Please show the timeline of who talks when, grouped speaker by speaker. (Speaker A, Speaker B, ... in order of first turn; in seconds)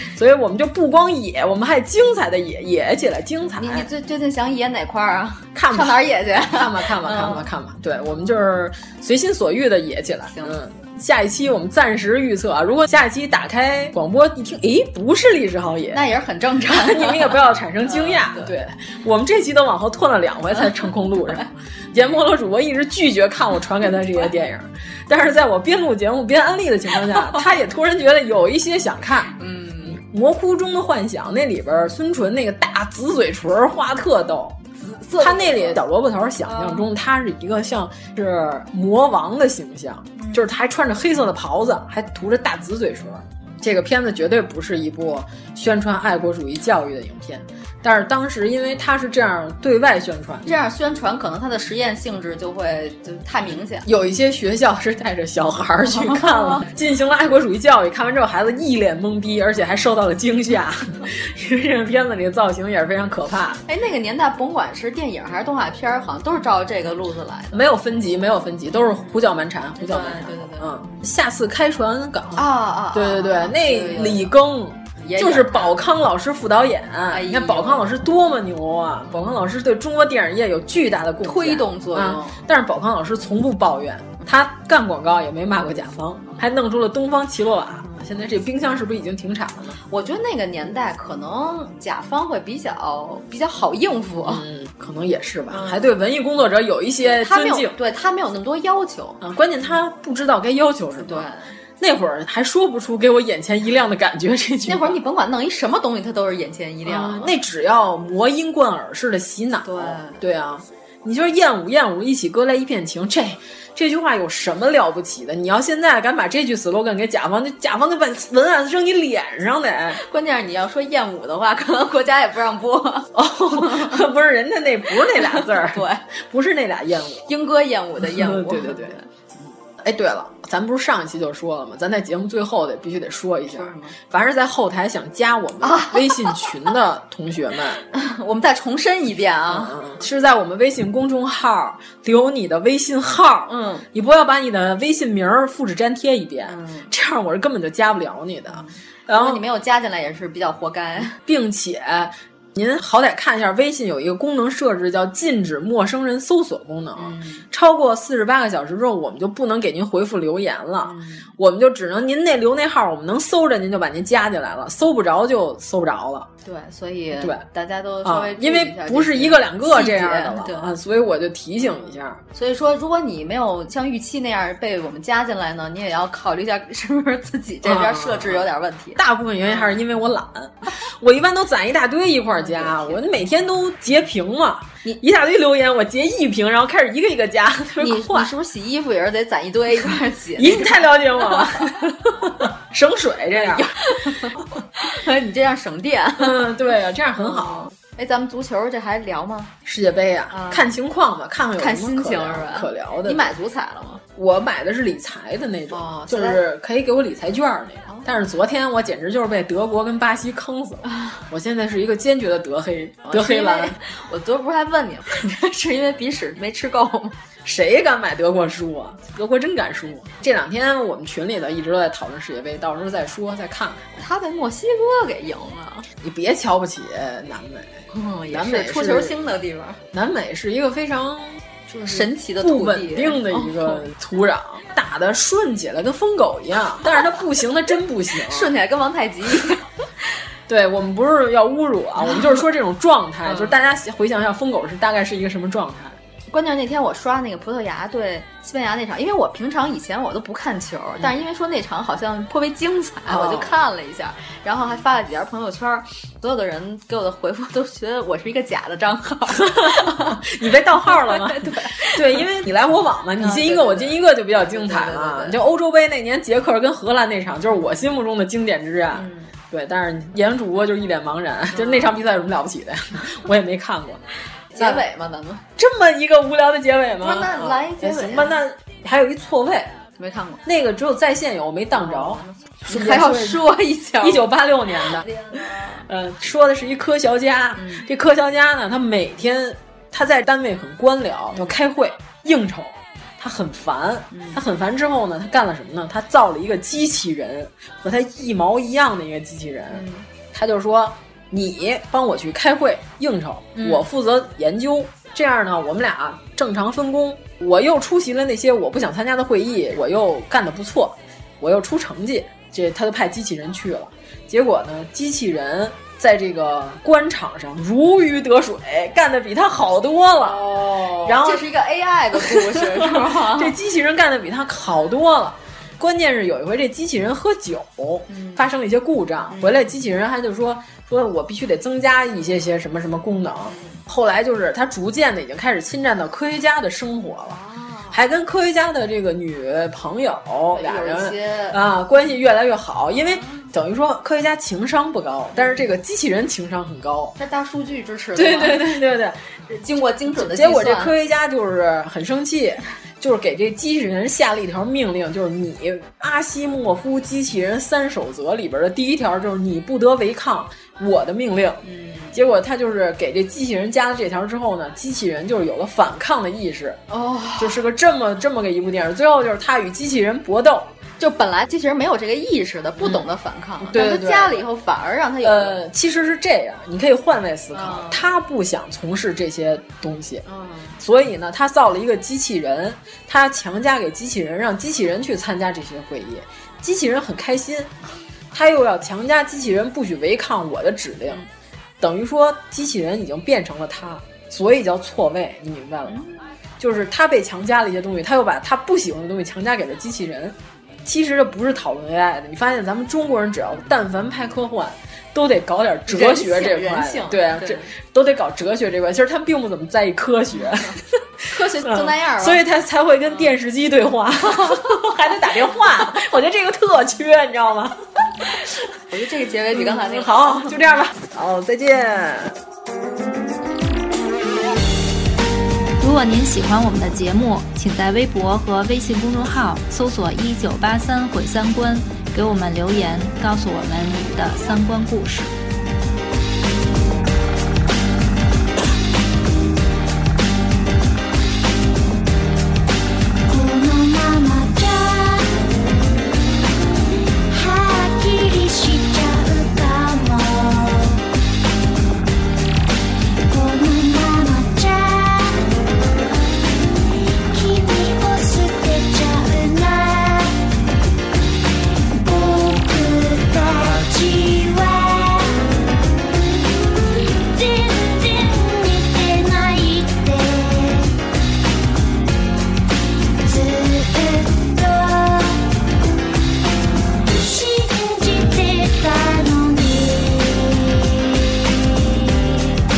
Speaker A: 0.1-3.9, 5.5-16.0, 16.7-34.6, 35.2-50.5, 53.8-63.6, 67.5-89.8, 94.2-97.8, 99.2-105.0, 106.8-120.0, 123.1-127.3, 128.0-129.0, 129.8-137.8, 139.5-149.4, 151.2-166.3, 167.2-167.4, 168.0-172.2, 177.6-178.4, 178.9-188.3, 190.3-193.7, 196.2-197.7, 199.6-203.3, 204.1-213.8, 217.4-223.9, 226.0-227.7, 228.3-229.2, 229.9-238.5, 240.5-246.0, 253.1-253.5, 259.5-274.0, 274.6-274.8, 275.6-279.7, 280.4-283.5, 284.0-285.1, 285.9-321.5, 322.1-337.4, 337.9-347.1, 348.1-349.2, 350.1-366.8, 367.4-370.7, 373.6-374.4, 375.2-380.2, 380.8-387.7, 388.3-391.2, 391.8-396.0, 396.6-410.9, 411.4-418.5, 419.6-422.4
Speaker B: 3.6-7.5, 15.9-18.5, 29.4-30.0, 34.8-35.8, 36.5-36.8, 50.4-53.9, 63.7-67.6, 69.8-70.7, 72.3-74.3, 75.0-75.8, 77.1-77.9, 81.2-82.4, 89.9-94.4, 95.5-95.9, 97.0-99.2, 101.0-101.5, 104.6-107.3, 109.6-110.2, 119.9-124.0, 125.0-126.0, 127.3-129.1, 133.5-133.9, 135.6-136.5, 137.9-139.8, 143.5-143.8, 146.5-146.9, 148.5-151.2, 157.0-157.4, 160.8-161.3, 166.4-170.7, 172.3-179.7, 182.3-183.0, 187.8-191.8, 193.4-196.4, 197.2-199.5, 200.3-200.7, 201.6-204.0, 205.7-206.4, 213.1-217.2, 224.0-225.9, 227.9-229.8, 231.7-233.8, 238.2-239.7, 246.3-260.2, 260.8-262.0, 263.2-265.4, 268.9-269.3, 271.5-272.0, 274.5-275.4, 277.0-278.3, 280.0-280.4, 281.7-285.8, 287.6-287.9, 294.1-294.4, 299.7-300.0, 303.6-303.8, 320.2-323.5, 328.1-328.4, 329.3-329.7, 333.5-333.8, 337.2-338.0, 340.5-341.6, 345.4-345.6, 347.2-348.7, 349.5-350.9, 361.6-362.2, 366.9-367.6, 371.0-375.6, 377.5-378.0, 380.2-380.8, 395.9-396.1, 405.9-407.7, 411.3-412.4, 418.9-420.6
Speaker C: 425.8-435.3, 443.3-445.4, 447.3-451.0, 453.3-455.5, 457.3-460.3, 461.9-465.4, 467.3-470.9, 473.2-475.4, 477.1-482.6